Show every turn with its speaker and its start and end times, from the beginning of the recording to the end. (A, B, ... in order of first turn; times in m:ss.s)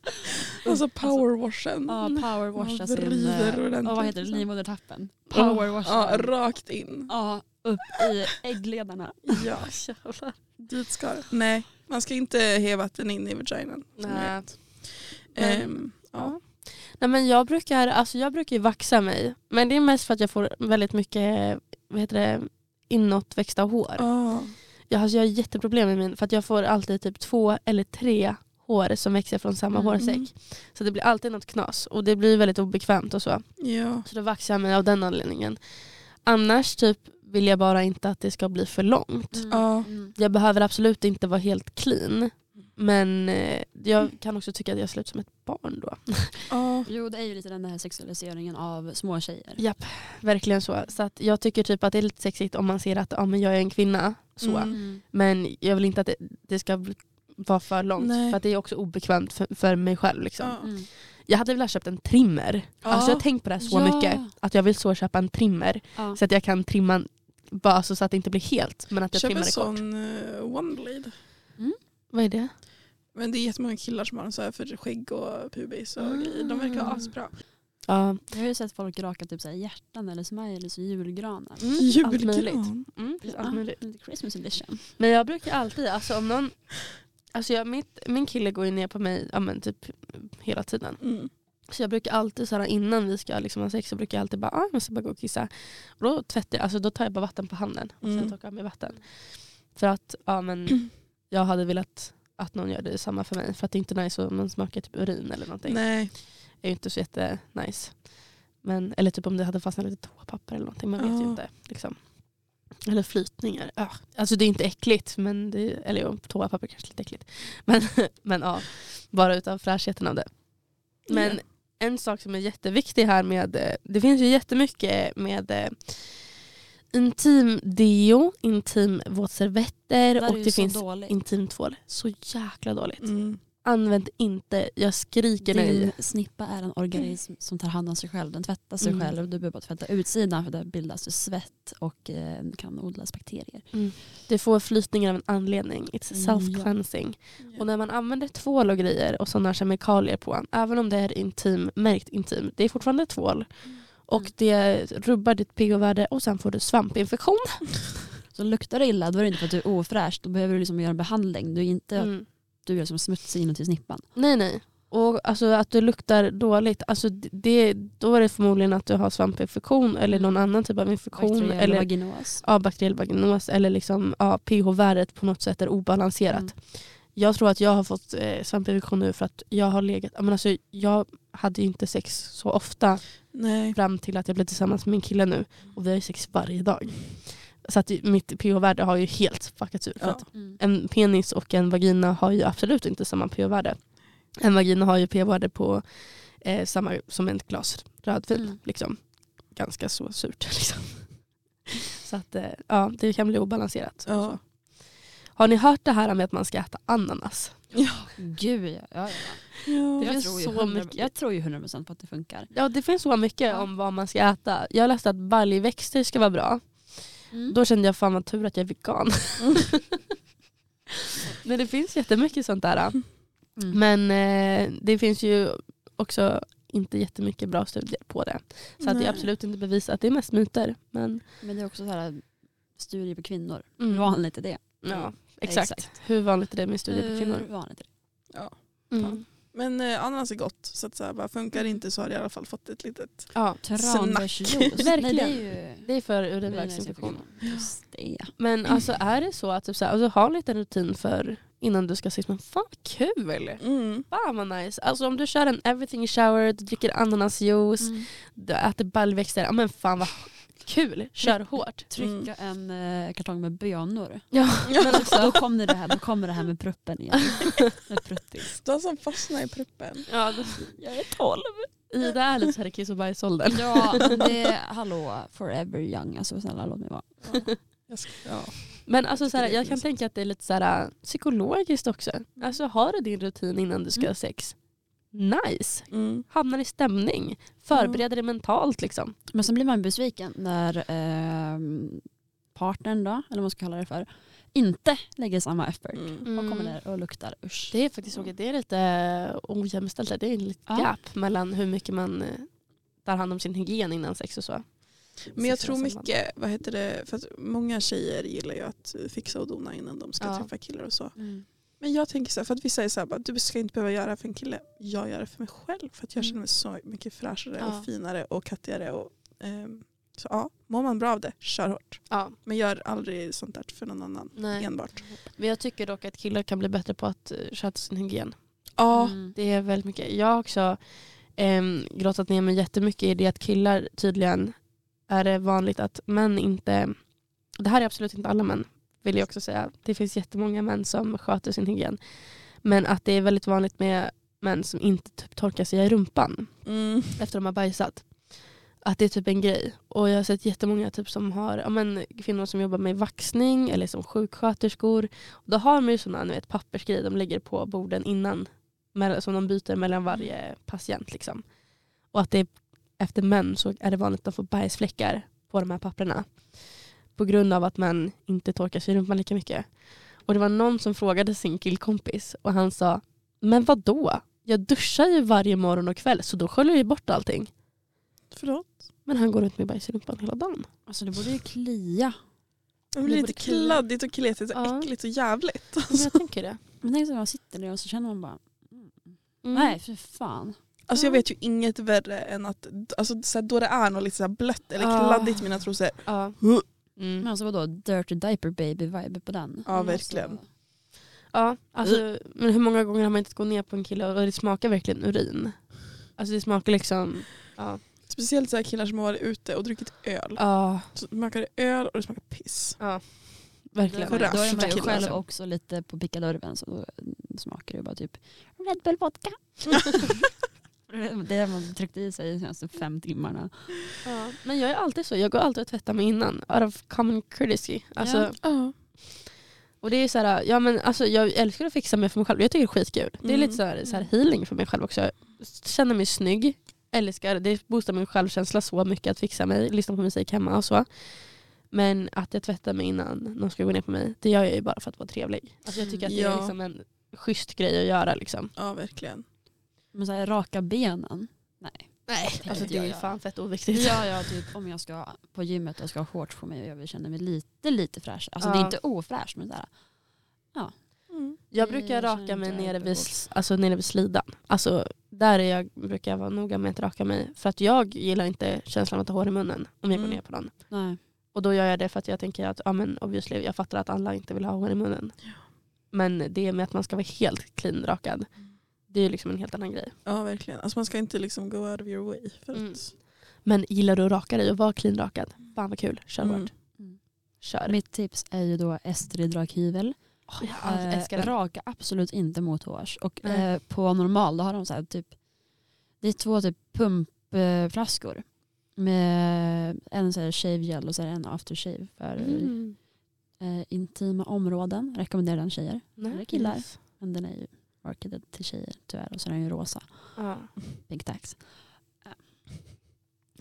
0:00.3-0:01.2 A
0:00.5-0:04.4 B
0:01.9-0:06.3 A
0:05.3-0:05.7 C
0:05.8-0:07.1 B
0:07.1-0:09.5 A
0:09.3-0:09.7 B
0:09.5-0:10.4 C
0:10.6-0:16.3 B
0:14.0-0:14.8 C
0:15.4-0:24.1 C
0:24.0-0:24.5 B
0:24.8-0:35.6 C
0:29.7-0:30.0 A
0:30.0-0:30.3 B
0:33.6-0:34.0 B
0:36.1-0:39.5 C
0:39.3-0:40.2 A
0:39.5-0:39.9 B
0:40.1-0:46.5 C
0:46.5-0:46.9 B
0:46.8-0:49.7 A
0:49.6-1:09.8 C
0:54.4-0:54.8 B
0:54.7-0:55.0 A
0:58.0-0:58.4 B
1:00.4-1:00.7 B
1:00.6-1:00.9 A
1:02.8-1:03.2 B
1:03.6-1:04.3 A
1:09.1-1:11.1 B
1:12.1-1:12.5 C
1:13.1-1:17.3 B
1:16.0-1:17.1 A
1:17.8-1:18.2 C
1:18.3-1:21.9 A
1:21.6-1:23.8 C
1:21.8-1:22.9 B
1:23.2-1:24.9 A
1:25.0-1:26.6 C
1:27.3-1:31.0 C
1:31.0-1:31.3 B
1:31.7-1:52.0 C
1:38.0-1:38.3 B
1:45.6-1:46.1 B
1:51.0-1:51.4 B
1:52.8-2:00.3 C
2:01.0-2:15.9 C
2:01.1-2:01.4 B
2:10.2-2:11.1 A
2:13.0-2:13.4 B
2:15.4-2:23.8 A
2:18.8-2:19.1 C
2:23.7-2:37.9 C
2:26.1-2:26.7 A
2:38.3-2:44.1 A
2:42.0-2:42.2 C
2:44.1-3:21.1 C
2:50.1-2:50.4 A
2:51.0-2:52.4 A
3:03.3-3:03.8 B
3:22.0-3:24.4 C
3:24.0-3:24.4 B
3:25.3-3:27.7 C
3:27.7-3:28.1 B
3:28.2-3:32.5 A
3:29.6-3:30.1 B
3:30.0-3:31.1 C
3:32.5-3:40.0 C
3:41.3-3:51.2 C
3:48.8-3:49.2 B
3:51.4-3:56.1 A
3:53.8-3:57.4 C
3:56.9-3:57.9 A
3:58.3-4:04.8 B
3:58.9-3:59.2 C
4:03.3-4:03.6 C
4:03.6-4:05.9 A
4:04.8-4:07.2 C
4:06.4-4:08.3 A
4:07.4-4:07.7 B
4:08.4-4:21.8 C
4:13.6-4:14.0 B
4:17.8-4:18.1 A
4:21.2-4:28.6 A
4:22.0-4:22.3 B
4:24.3-4:25.4 C
4:24.7-4:25.1 B
4:28.6-4:30.1 B
4:30.1-4:30.8 C
4:30.8-4:31.7 A
4:31.9-4:34.2 C
4:33.5-4:37.5 A
4:37.2-4:39.8 B
4:38.8-4:44.6 C
4:45.1-4:49.1 C
4:45.9-4:46.2 B
4:47.7-4:48.0 B
4:49.3-4:57.7 A
4:55.9-4:56.2 B
4:56.2-4:56.8 C
4:57.7-5:06.1 C
5:05.3-5:11.2 B
5:10.2-5:10.5 C
5:11.2-5:11.4 A
5:11.8-5:25.0 B
5:17.6-5:17.9 C
5:22.1-5:22.3 C
5:24.3-5:28.4 C
5:28.8-5:29.2 B
5:28.9-5:29.3 A
5:29.2-5:37.0 C
5:37.6-6:01.4 C
5:46.6-5:47.2 B
6:02.1-6:17.5 C
6:18.3-6:18.8 B
6:19.0-6:20.7 C
6:20.9-6:22.2 A
6:22.9-6:26.2 B
6:23.0-6:23.8 C
6:24.5-6:24.9 C
6:25.9-6:26.6 C
6:26.8-6:30.6 A
6:29.4-6:29.8 C
6:30.9-6:36.6 B
6:30.9-6:31.2 C
6:34.8-6:36.4 C
6:37.0-6:37.3 C
6:37.2-6:40.5 A
6:39.6-6:40.4 B
6:39.7-6:40.0 C
6:41.3-6:47.8 C
6:48.1-6:52.8 B
6:50.4-6:50.9 C
6:52.8-6:55.0 C
6:53.9-7:00.3 A
6:54.0-6:55.2 B
7:00.9-7:03.8 A
7:04.0-7:08.4 C
7:08.0-7:08.3 A
7:08.4-7:08.7 B
7:09.8-7:28.5 C
7:13.2-7:13.6 B
7:25.8-7:26.0 A
7:26.1-7:26.5 B
7:28.6-7:29.2 B
7:29.9-7:33.1 A
7:32.1-7:34.1 C
7:33.7-7:39.7 A
7:38.4-7:38.8 C
7:41.1-7:41.4 B
7:41.5-7:50.8 C
7:41.6-7:43.2 A
7:49.9-7:50.2 B
7:50.7-7:51.0 A
7:51.3-7:55.2 C
7:55.9-7:58.3 C
7:58.8-7:59.9 C
8:00.0-8:02.9 B
8:02.5-8:06.5 C
8:06.2-8:06.5 B
8:07.4-8:07.8 C
8:07.6-8:15.2 A
8:10.3-8:11.3 C
8:16.0-8:22.7 A
8:22.2-8:22.8 C
8:23.4-8:30.2 A
8:26.0-8:26.7 C
8:30.2-8:30.5 C
8:30.8-8:31.4 A